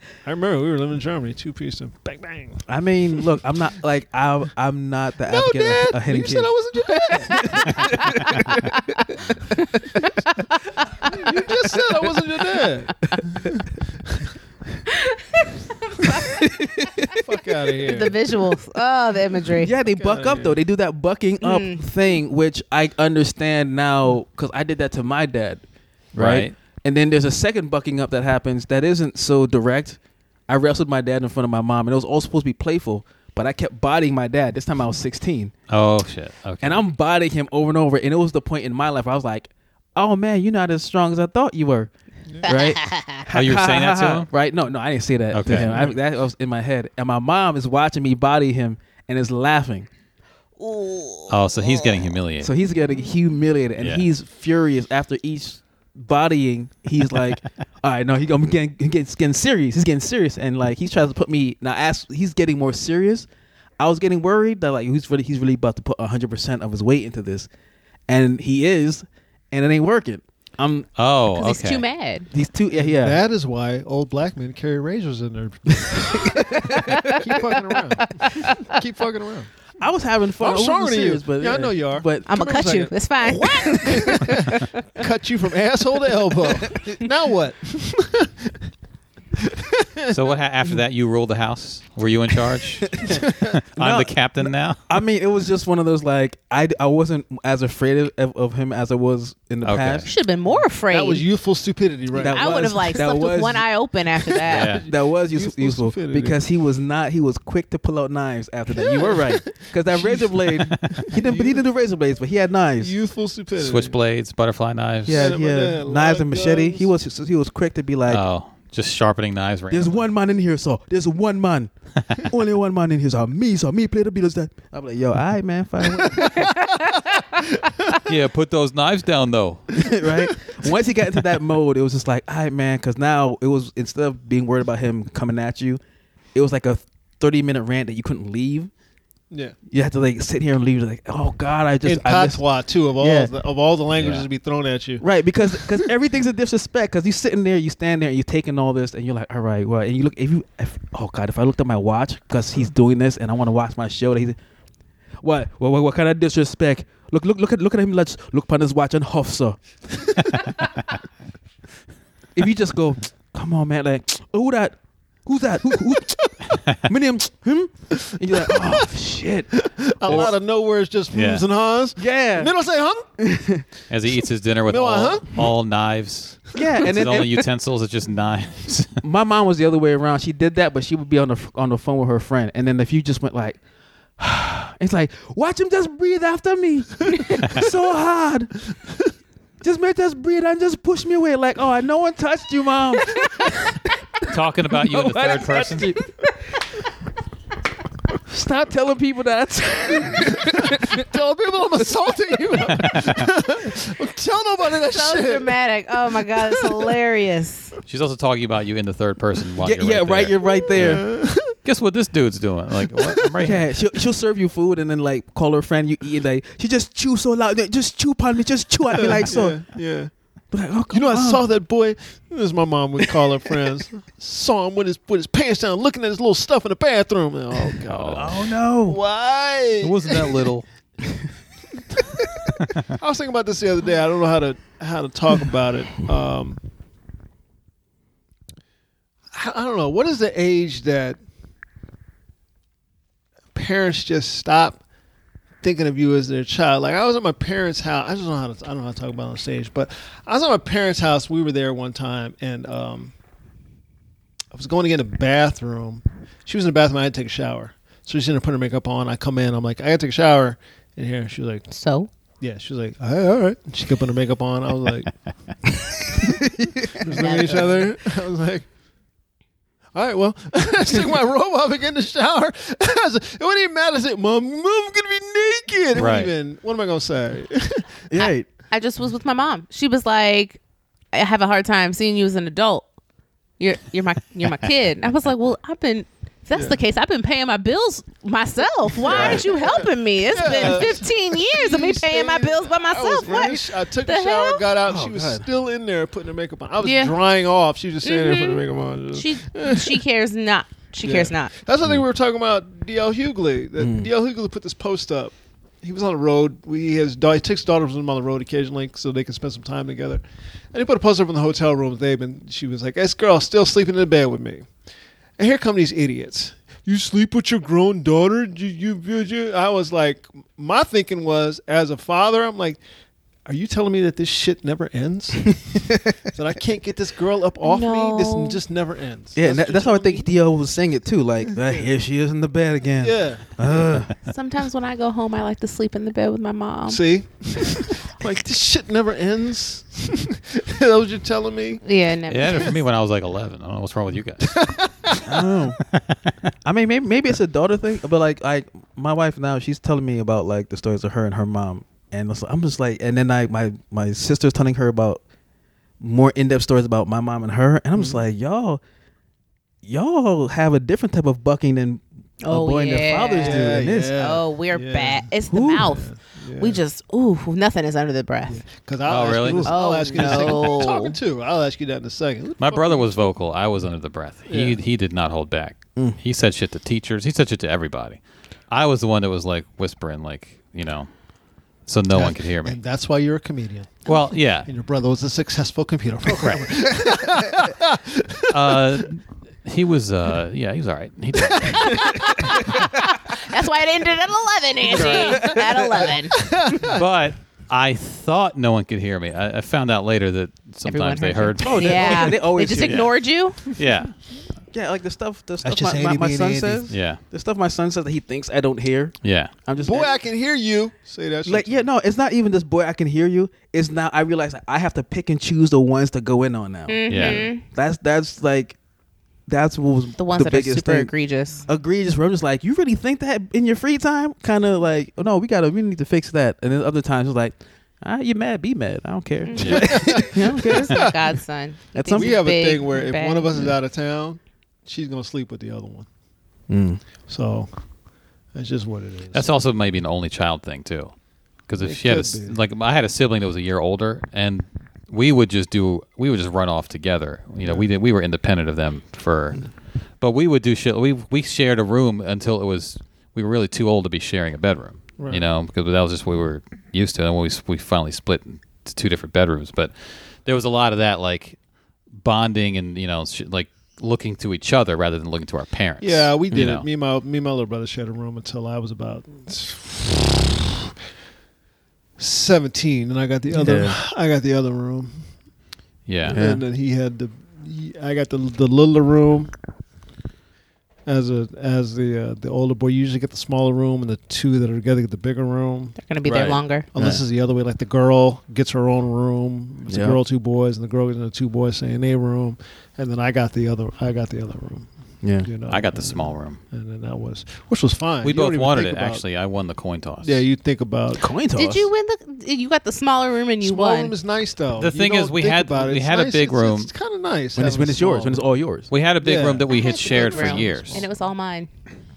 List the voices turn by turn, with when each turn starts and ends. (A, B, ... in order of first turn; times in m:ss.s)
0:00.2-0:02.6 A
0:02.7-0:08.8 B
0:05.3-0:08.4 A
0:11.0-0:13.6 A
0:13.1-0:13.5 B
0:15.0-0:16.5 C
0:16.3-0:17.2 B
0:17.1-0:18.2 A
0:17.8-0:19.7 C
0:19.6-0:25.6 B
0:19.9-0:20.6 A
0:21.4-0:21.9 C
0:26.2-0:26.5 D
0:26.2-0:35.5 B
0:35.7-0:36.8 D
0:36.6-0:41.9 B
0:42.4-0:49.9 B
0:42.5-0:43.2 C
0:43.3-0:44.3 D
0:45.3-0:45.9 D
0:50.6-0:52.1 C
0:51.3-0:52.5 D
0:52.4-1:03.3 B
0:53.8-0:54.1 D
1:03.8-1:07.5 B
1:08.1-1:10.9 B
1:11.0-1:11.8 D
1:11.4-1:12.3 C
1:12.3-1:13.2 B
1:12.7-1:19.5 A
1:16.1-1:17.1 B
1:18.1-1:18.7 C
1:19.8-1:22.3 B
1:20.4-1:28.6 A
1:22.3-1:24.6 C
1:26.7-1:27.0 B
1:29.4-1:30.2 A
1:30.1-1:34.8 D
1:33.0-1:33.2 B
1:33.1-1:33.5 A
1:33.8-1:40.1 B
1:39.6-1:40.1 D
1:40.0-1:41.2 C
1:40.9-1:43.0 A
1:42.1-1:43.7 B
1:42.3-1:44.8 C
1:44.4-1:44.8 D
1:44.6-1:46.4 A
1:44.7-1:52.9 B
1:48.9-1:51.6 A
1:52.8-1:54.0 A
1:53.6-1:55.3 D
1:55.1-1:58.2 B
1:55.1-1:56.9 A
1:58.1-2:00.1 D
1:59.7-2:06.5 B
2:06.0-2:08.1 A
2:08.0-2:09.9 D
2:09.8-2:15.8 B
2:16.3-2:18.7 B
2:19.3-2:19.6 A
2:19.7-2:22.4 B
2:21.8-2:25.9 A
2:23.0-2:23.3 B
2:24.0-2:24.3 D
2:25.0-2:34.4 B
2:35.2-2:40.1 B
2:42.4-2:50.3 B
2:48.4-2:48.7 A
2:49.5-2:53.1 A
2:50.1-2:50.3 D
2:51.1-2:51.4 D
2:52.0-2:52.5 B
2:53.2-2:53.7 B
2:53.9-2:59.0 D
2:54.7-2:55.5 A
2:56.5-2:57.4 B
2:59.0-3:03.6 B
3:04.2-3:08.6 B
3:09.6-3:13.8 B
3:14.2-3:15.9 D
3:14.7-3:16.1 B
3:18.3-3:21.0 B
3:20.5-3:25.6 A
3:22.7-3:23.3 D
3:24.9-3:27.8 C
3:26.3-3:27.0 A
3:27.9-3:33.7 D
3:29.6-3:31.0 B
3:30.7-3:31.6 A
3:32.9-3:33.4 A
3:33.4-3:39.6 B
3:38.9-3:40.1 A
3:40.5-3:41.4 B
3:40.9-3:50.5 A
3:47.9-3:48.5 D
3:48.1-3:49.0 B
3:49.8-3:50.6 D
3:52.9-3:56.6 A
3:59.3-4:01.2 A
4:03.5-4:04.8 A
4:05.6-4:13.1 A
4:14.5-4:21.7 A
4:21.7-4:22.1 C
4:22.4-4:25.1 A
4:26.2-4:27.0 B
4:26.9-4:28.7 A
4:27.1-4:27.9 C
4:29.9-4:37.9 A
4:36.0-4:36.3 D
4:38.1-4:38.5 B
4:38.2-4:40.6 C
4:41.1-4:42.9 C
4:43.6-4:54.7 C
4:46.5-4:46.8 A
4:49.0-5:00.0 A
4:49.0-4:49.4 D
4:54.9-4:55.5 B
4:56.8-4:57.2 C
4:58.0-5:01.5 C
5:01.0-5:14.7 A
5:03.8-5:04.1 B
5:15.4-5:22.8 A
5:23.5-5:30.3 A
5:25.8-5:26.2 B
5:27.6-5:28.6 C
5:29.4-5:34.1 B
5:33.0-5:33.5 A
5:34.3-5:37.0 C
5:36.9-5:41.8 A
5:41.8-5:42.8 C
5:42.3-5:44.8 D
5:44.4-5:45.3 A
5:45.2-5:45.8 B
5:45.8-5:46.2 D
5:46.6-5:55.2 B
5:56.0-5:58.8 B
5:58.0-5:58.2 A
5:59.8-6:04.2 B
6:02.4-6:08.6 C
6:03.4-6:05.3 A
6:05.5-6:05.9 B
6:05.8-6:06.8 A
6:08.5-6:13.3 A
6:09.1-6:10.7 D
6:09.6-6:11.2 C
6:12.6-6:21.1 D
6:14.5-6:14.8 A
6:21.9-6:22.8 D
6:22.1-6:29.0 A
6:24.1-6:24.7 D
6:26.3-6:26.7 D
6:28.5-6:32.8 D
6:31.5-6:32.6 A
6:31.8-6:36.4 C
6:34.9-6:35.4 D
6:34.9-6:36.1 B
6:36.3-6:37.0 A
6:36.8-6:43.1 D
6:40.9-6:43.7 C
6:41.6-6:43.0 B
6:43.7-6:44.1 D
6:44.7-6:50.1 B
6:45.6-6:46.9 A
6:46.9-6:47.2 D
6:49.2-6:49.5 D
6:49.8-6:51.8 A
6:51.5-6:58.8 B
6:56.9-6:57.6 C
6:57.1-6:57.5 D
6:59.5-7:01.1 B
7:00.2-7:01.6 C
7:01.6-7:11.1 B
7:09.4-7:13.7 C
7:09.6-7:10.0 D
7:09.7-7:11.1 A
7:12.0-7:12.4 B
7:12.2-7:16.1 A
7:16.7-7:17.0 B
7:17.3-7:17.7 A
7:18.5-7:19.5 A
7:19.3-7:21.1 D
7:21.7-7:41.6 D
7:21.8-7:22.6 A
7:35.2-7:35.4 A
7:42.1-7:46.9 D
7:46.0-7:50.6 A
7:52.2-7:55.3 A
7:53.5-7:54.0 B
7:56.1-7:56.4 D
7:56.3-7:56.6 B
7:56.3-7:59.5 A
8:01.1-8:06.0 A
8:06.0-8:06.9 C
8:06.2-8:07.2 B
8:06.9-8:14.9 A
8:09.9-8:10.2 B
8:15.2-8:15.5 B
8:15.4-8:19.2 A
8:15.7-8:16.6 D
8:18.2-8:20.4 D
8:20.2-8:21.2 A
8:21.1-8:21.9 B
8:21.6-8:24.1 C
8:23.6-8:28.5 A
8:24.8-8:26.9 D
8:27.6-8:28.9 B
8:28.9-8:31.1 D
8:29.2-8:31.1 A
8:29.7-8:31.7 C